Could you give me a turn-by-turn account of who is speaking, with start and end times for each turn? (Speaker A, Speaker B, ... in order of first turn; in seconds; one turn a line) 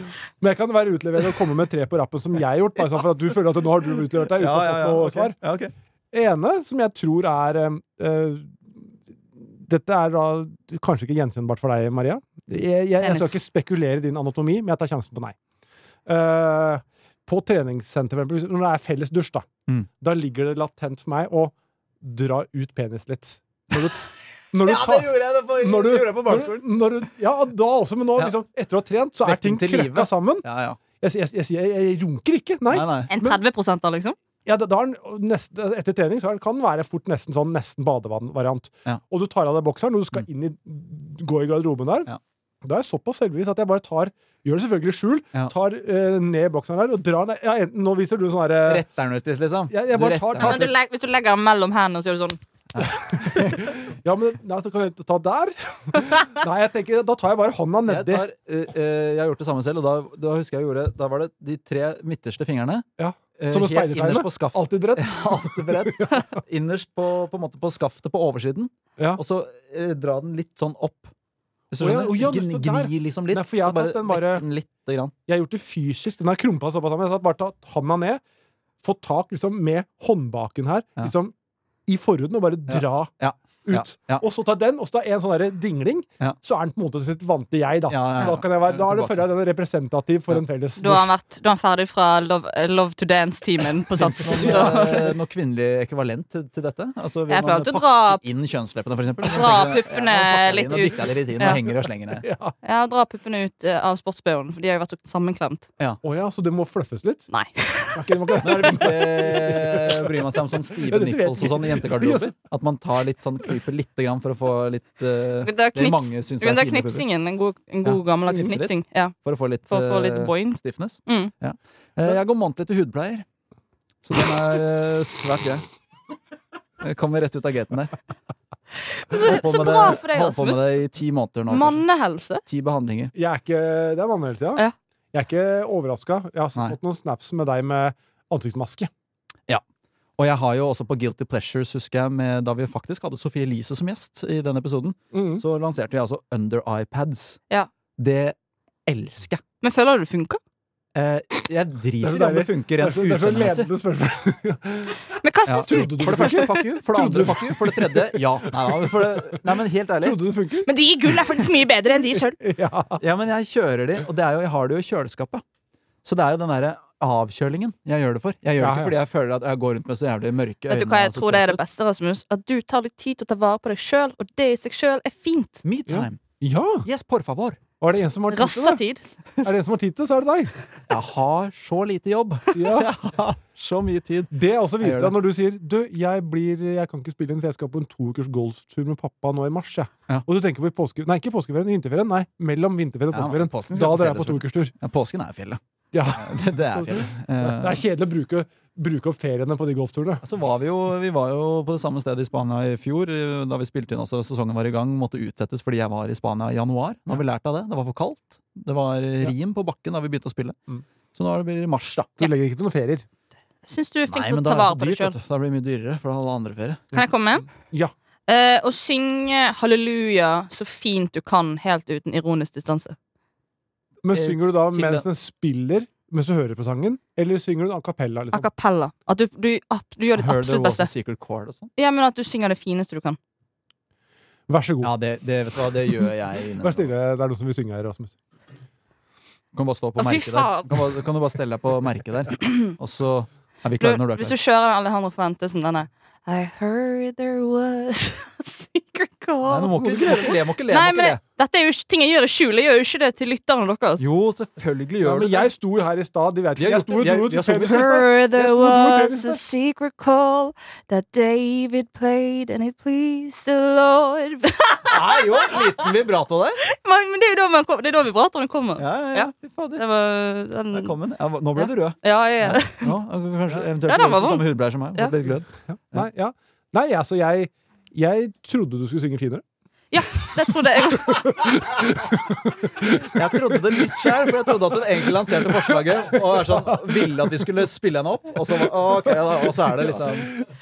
Speaker A: 0.4-5.4
Speaker B: 4.4-5.7
Speaker A: 6.1-8.7
Speaker A: 9.4-15.3
Speaker C: 13.0-13.4
Speaker A: 16.1-19.5
Speaker A: 20.0-23.9
Speaker A: 24.5-30.4
Speaker B: 24.6-26.6
Speaker B: 29.2-30.8
Speaker A: 31.0-33.4
Speaker B: 32.7-33.1
Speaker C: 33.1-34.2
Speaker A: 34.5-42.1
Speaker A: 42.6-48.9
Speaker B: 48.6-50.7
Speaker A: 49.7-50.7
Speaker C: 50.4-52.4
Speaker B: 52.7-53.7
Speaker A: 53.2-58.3
Speaker B: 57.9-62.9
Speaker A: 63.0-66.3
Speaker B: 63.4-71.1
Speaker B: 71.7-75.1
Speaker A: 71.8-74.5
Speaker A: 75.3-78.2
Speaker A: 78.8-81.3
Speaker A: 81.9-83.1
Speaker B: 82.7-84.2
Speaker A: 83.7-91.1
Speaker B: 87.9-89.3
Speaker C: 90.8-95.1
Speaker B: 94.0-102.3
Speaker A: 94.3-95.0
Speaker C: 97.3-98.2
Speaker C: 99.2-101.6
Speaker A: 100.8-102.5
Speaker C: 102.6-105.7
Speaker A: 106.0-107.3
Speaker C: 107.3-108.4
Speaker A: 107.9-112.3
Speaker B: 108.4-117.1
Speaker C: 115.4-119.2
Speaker B: 117.8-123.2
Speaker C: 119.7-121.3
Speaker B: 124.0-125.7
Speaker B: 126.8-128.0
Speaker C: 129.0-130.7
Speaker B: 129.2-131.8
Speaker C: 131.5-132.4
Speaker B: 132.5-133.1
Speaker A: 133.1-138.9
Speaker B: 140.2-147.4
Speaker A: 145.1-145.4
Speaker B: 148.0-148.3
Speaker B: 148.9-149.4
Speaker C: 149.6-150.4
Speaker B: 150.9-153.7
Speaker A: 152.0-155.0
Speaker C: 155.2-156.7
Speaker B: 155.5-160.2
Speaker A: 155.7-159.5
Speaker A: 160.0-160.7
Speaker C: 160.7-162.4
Speaker A: 162.4-163.0
Speaker B: 163.0-165.4
Speaker B: 166.1-171.6
Speaker A: 168.6-169.0
Speaker C: 170.7-175.6
Speaker B: 175.6-176.2
Speaker A: 175.9-176.9
Speaker B: 176.8-177.6
Speaker A: 177.8-178.8
Speaker C: 178.3-179.0
Speaker A: 179.4-180.6
Speaker B: 180.9-185.2
Speaker A: 182.5-182.9
Speaker A: 184.3-194.7
Speaker B: 193.1-197.8
Speaker A: 195.9-200.2
Speaker B: 200.2-210.6
Speaker B: 211.2-212.2
Speaker A: 212.2-213.1
Speaker C: 213.7-215.2
Speaker B: 214.1-216.9
Speaker C: 216.9-217.5
Speaker A: 216.9-217.9
Speaker C: 218.3-223.0
Speaker A: 224.0-228.5
Speaker B: 224.1-225.1
Speaker C: 228.3-230.9
Speaker B: 230.2-231.7
Speaker C: 231.8-233.2
Speaker A: 234.5-234.9
Speaker B: 234.8-236.9
Speaker A: 236.6-238.1
Speaker B: 239.5-244.3
Speaker C: 240.0-240.8
Speaker C: 242.4-242.7
Speaker C: 243.8-254.1
Speaker B: 249.5-251.2
Speaker A: 249.8-250.4
Speaker B: 254.0-255.5
Speaker A: 255.0-259.4
Speaker B: 256.6-258.1
Speaker C: 257.6-265.7
Speaker B: 264.9-266.6
Speaker C: 266.6-270.9
Speaker B: 268.8-269.8
Speaker B: 270.7-276.1
Speaker C: 271.6-272.9
Speaker C: 273.8-275.1
Speaker A: 275.7-279.4
Speaker C: 279.9-281.5
Speaker A: 281.0-287.1
Speaker B: 282.9-290.3
Speaker A: 289.1-290.0